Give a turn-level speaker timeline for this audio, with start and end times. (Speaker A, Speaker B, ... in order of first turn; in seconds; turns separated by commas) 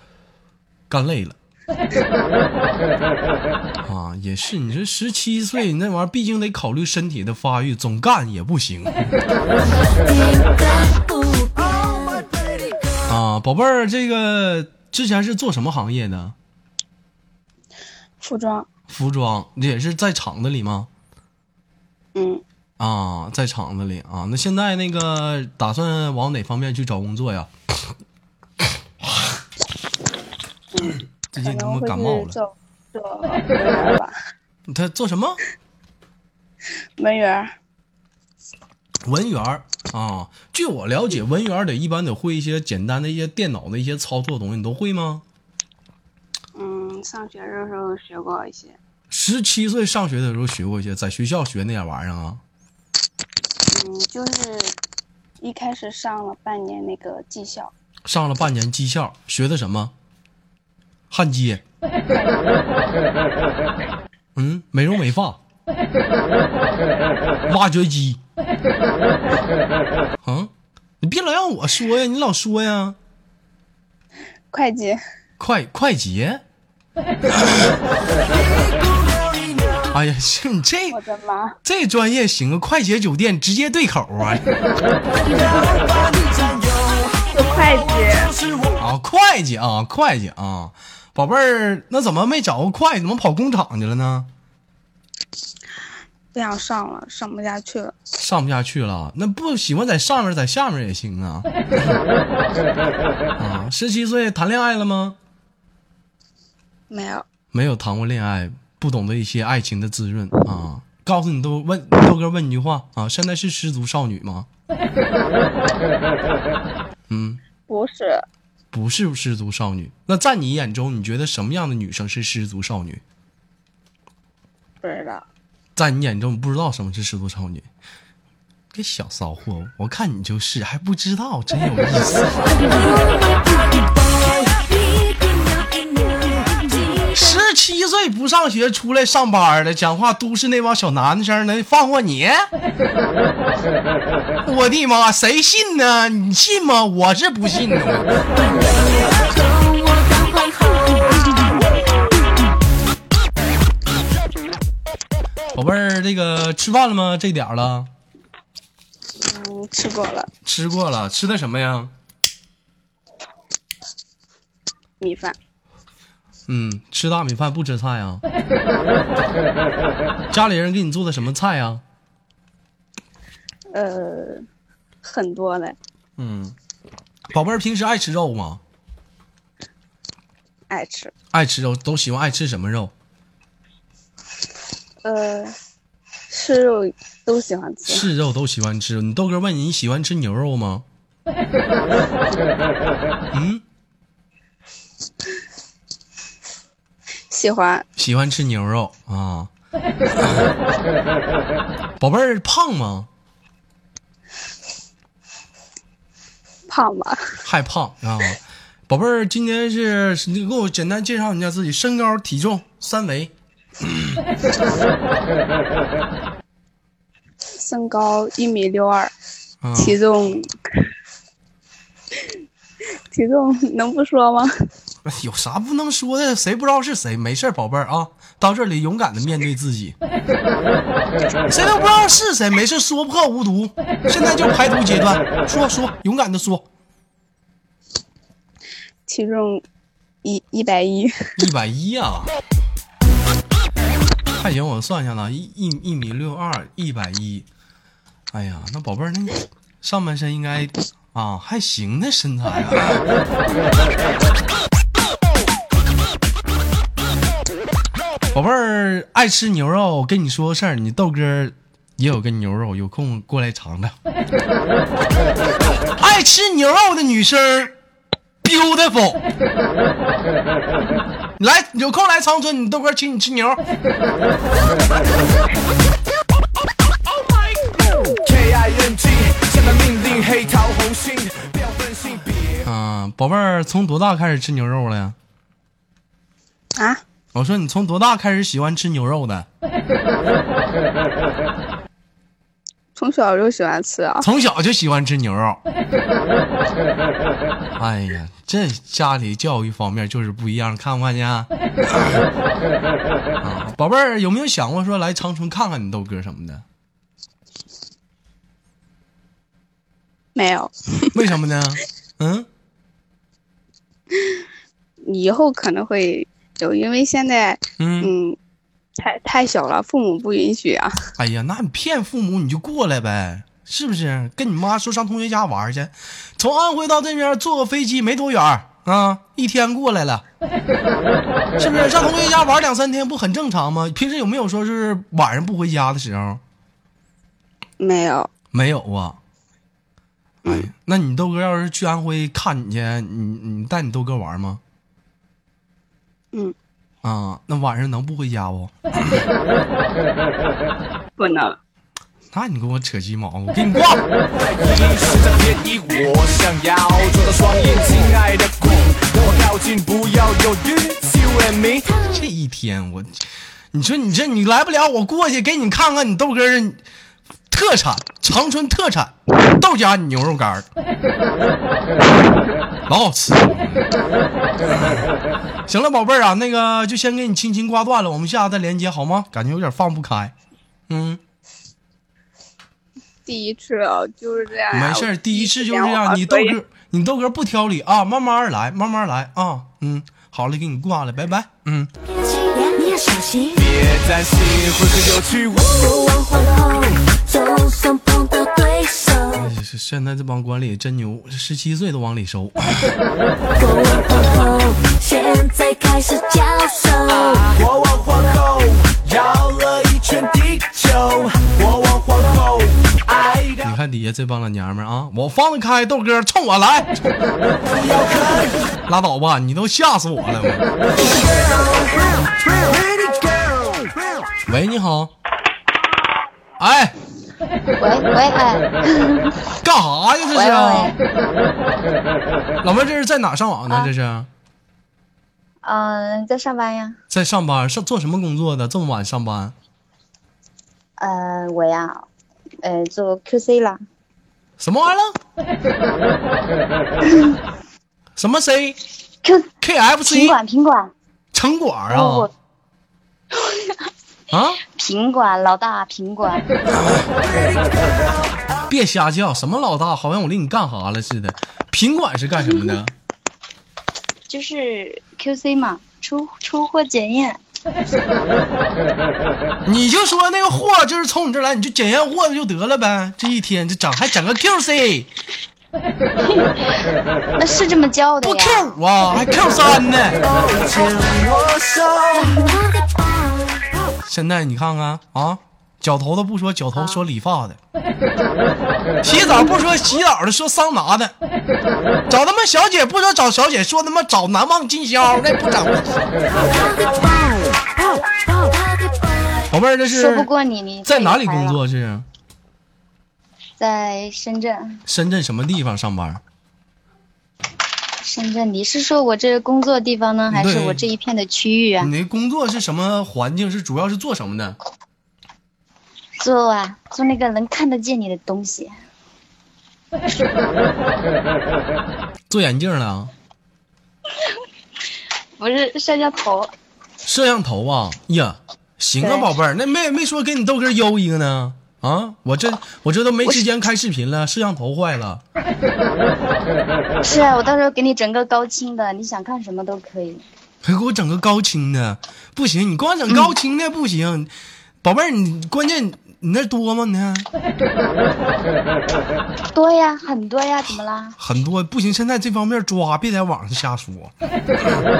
Speaker A: 0.9-1.4, Speaker A: 3.8-9.1, Speaker B: 9.6-12.3, Speaker A: 13.1-16.4, Speaker C: 18.2-18.7, Speaker A: 18.9-20.9, Speaker C: 22.1-22.4, Speaker A: 22.8-27.5, Speaker C: 30.7-34.1, Speaker A: 31.3-32.4, Speaker A: 34.7-35.4, Speaker C: 37.0-37.5, Speaker A: 39.0-45.2, Speaker C: 46.6-48.8, Speaker A: 49.1-52.4, Speaker C: 53.7-54.8, Speaker C: 55.4-57.7, Speaker A: 58.1-59.9, Speaker A: 61.1-61.6, Speaker C: 62.1-62.4, Speaker A: 64.3-65.4, Speaker A: 67.5-68.2, Speaker A: 70.2-73.0, Speaker C: 74.5-75.0, Speaker A: 75.4-76.4, Speaker A: 77.3-77.7, Speaker D: 79.0-79.5, Speaker A: 79.9-81.0, Speaker C: 80.9-81.6, Speaker A: 81.6-84.5, Speaker D: 85.4-86.8, Speaker C: 87.3-88.3, Speaker A: 88.8-94.3, Speaker C: 96.3-98.0, Speaker A: 98.2-102.0, Speaker A: 103.4-105.2, Speaker C: 106.9-107.2, Speaker A: 107.5-114.5, Speaker A: 117.1-117.4, Speaker C: 117.7-118.3, Speaker A: 118.7-123.0, Speaker C: 124.8-125.2, Speaker A: 125.8-127.7, Speaker A: 128.7-132.6, Speaker B: 132.7-137.4, Speaker A: 137.1-142.5, Speaker A: 144.4-148.2, Speaker B: 148.4-151.6, Speaker A: 155.5-157.9, Speaker C: 159.2-160.3, Speaker A: 160.4-161.9, Speaker C: 165.0-165.4, Speaker A: 166.5-168.2, Speaker A: 170.3-171.8, Speaker C: 173.7-174.4, Speaker C: 175.0-175.8, Speaker A: 176.2-176.6, Speaker A: 177.3-178.6, Speaker C: 180.7-181.1, Speaker A: 181.3-182.9, Speaker C: 185.0-185.5, Speaker C: 186.3-188.1, Speaker A: 187.9-190.8, Speaker A: 193.3-193.6, Speaker C: 197.3-197.8, Speaker A: 198.0-199.5, Speaker A: 200.1-200.5, Speaker A: 202.0-203.1, Speaker C: 206.7-207.2, Speaker A: 207.4-214.2, Speaker C: 217.6-219.1, Speaker A: 219.6-220.0, Speaker C: 219.8-220.5, Speaker C: 223.1-224.5, Speaker A: 225.1-230.0, Speaker A: 231.5-236.7, Speaker C: 239.1-239.6, Speaker C: 240.2-241.2, Speaker A: 241.4-242.3, Speaker A: 244.4-247.5, Speaker A: 248.3-253.1, Speaker A: 258.3-264.0, Speaker A: 266.0-267.8, Speaker A: 268.4-269.2, Speaker A: 271.4-273.6, Speaker D: 278.2-282.6, Speaker A: 282.6-285.2, Speaker C: 286.8-287.0, Speaker A: 287.3-289.5, Speaker C: 293.0-294.3, Speaker A: 294.2-295.6, Speaker A: 297.8-302.3, Speaker A: 303.4-306.6, Speaker C: 310.4-311.1, Speaker A: 311.1-312.5, Speaker C: 315.1-318.4, Speaker A: 317.8-318.1, Speaker C: 319.0-320.9, Speaker A: 321.2-330.2, Speaker A: 331.6-336.4, Speaker C: 337.8-338.3, Speaker A: 338.5-339.2, Speaker A: 340.4-344.6, Speaker A: 347.0-349.2, Speaker C: 351.2-351.6, Speaker A: 352.3-354.1, Speaker D: 354.4-361.9, Speaker B: 361.9-362.2, Speaker A: 362.1-363.2, Speaker A: 363.7-366.8, Speaker A: 367.5-370.7, Speaker A: 372.9-373.9, Speaker A: 374.7-375.1, Speaker A: 375.7-380.3, Speaker A: 380.9-381.2, Speaker C: 383.3-386.6, Speaker A: 384.7-391.9, Speaker B: 392.1-393.7, Speaker D: 393.6-395.7, Speaker B: 395.6-399.5, Speaker A: 399.3-402.9, Speaker B: 403.6-407.6, Speaker D: 407.1-413.7, Speaker A: 413.6-417.2, Speaker D: 417.7-418.6, Speaker A: 418.9-420.7, Speaker D: 421.3-423.8, Speaker A: 424.5-425.1, Speaker A: 426.6-426.9, Speaker E: 427.8-429.4, Speaker A: 429.6-431.0, Speaker E: 430.3-431.0, Speaker A: 432.6-434.3, Speaker E: 435.6-437.0, Speaker A: 437.1-439.6, Speaker E: 441.0-442.1, Speaker E: 442.6-443.8, Speaker A: 444.6-445.2, Speaker E: 447.1-447.4, Speaker A: 448.2-448.8, Speaker E: 449.2-449.5, Speaker A: 449.6-450.4, Speaker E: 450.1-450.9, Speaker A: 451.3-452.3, Speaker E: 451.9-452.3, Speaker A: 454.3-454.6, Speaker E: 454.7-456.5, Speaker A: 456.7-457.1, Speaker A: 458.7-462.9, Speaker E: 464.3-467.4, Speaker A: 469.7-475.1, Speaker E: 477.4-478.7, Speaker A: 478.2-480.2, Speaker D: 480.3-482.2, Speaker B: 482.2-483.7, Speaker A: 484.1-487.6, Speaker E: 486.8-487.0, Speaker A: 489.0-491.1, Speaker A: 492.1-496.1, Speaker B: 496.3-499.5, Speaker A: 499.5-500.3, Speaker E: 499.9-501.6, Speaker A: 500.9-502.1, Speaker E: 503.6-504.8, Speaker A: 504.9-506.2, Speaker E: 508.0-511.9, Speaker A: 510.3-510.9, Speaker A: 511.8-514.6, Speaker E: 516.2-518.7, Speaker A: 522.3-523.1, Speaker E: 525.4-526.5, Speaker A: 527.0-535.2, Speaker E: 529.0-529.3, Speaker E: 537.0-540.2, Speaker A: 540.6-544.3, Speaker A: 544.8-547.3, Speaker E: 549.5-551.2, Speaker A: 551.2-554.1